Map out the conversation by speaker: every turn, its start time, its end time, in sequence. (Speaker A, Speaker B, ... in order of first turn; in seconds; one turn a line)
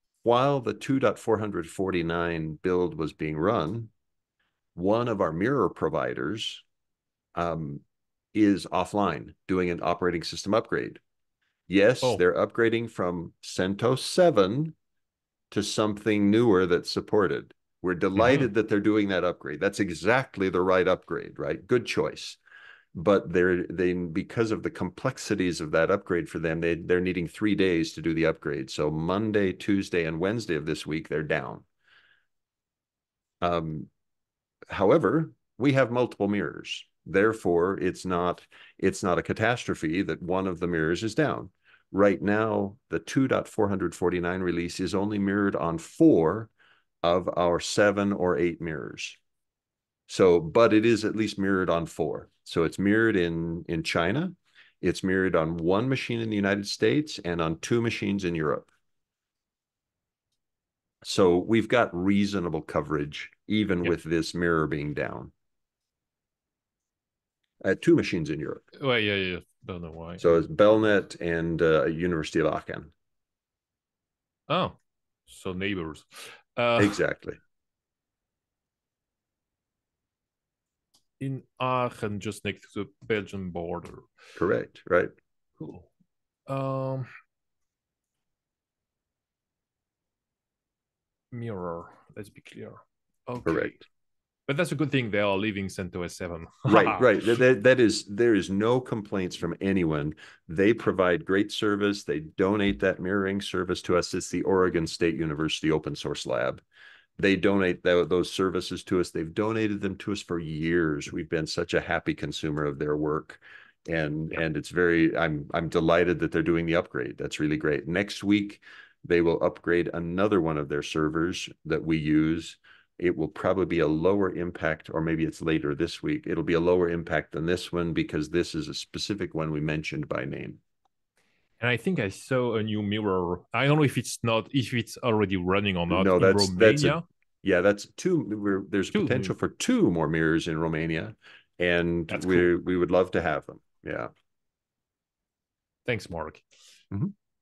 Speaker A: 0.2-3.9
Speaker A: 4.8-6.6
Speaker A: 7.3-11.0
Speaker A: 11.7-14.8
Speaker A: 15.5-22.4
Speaker B: 18.2-18.5
Speaker A: 22.9-31.6
Speaker A: 33.4-33.9
Speaker A: 34.7-46.5
Speaker A: 47.0-49.2
Speaker A: 50.1-58.7
Speaker A: 61.0-65.3
Speaker A: 67.6-68.6
Speaker B: 68.8-70.5
Speaker A: 70.2-72.9
Speaker B: 74.5-74.8
Speaker B: 75.3-77.0
Speaker A: 76.8-77.4
Speaker B: 81.2-84.1
Speaker A: 84.4-85.1
Speaker B: 85.6-85.9
Speaker B: 86.5-87.1
Speaker B: 91.3-93.8
Speaker A: 93.5-93.7
Speaker B: 94.5-97.1
Speaker A: 96.7-106.6
Speaker A: 107.2-130.6
Speaker B: 131.6-137.0
Speaker A: 135.9-144.1
Speaker B: 138.9-139.3
Speaker B: 142.1-142.5
Speaker B: 145.9-146.4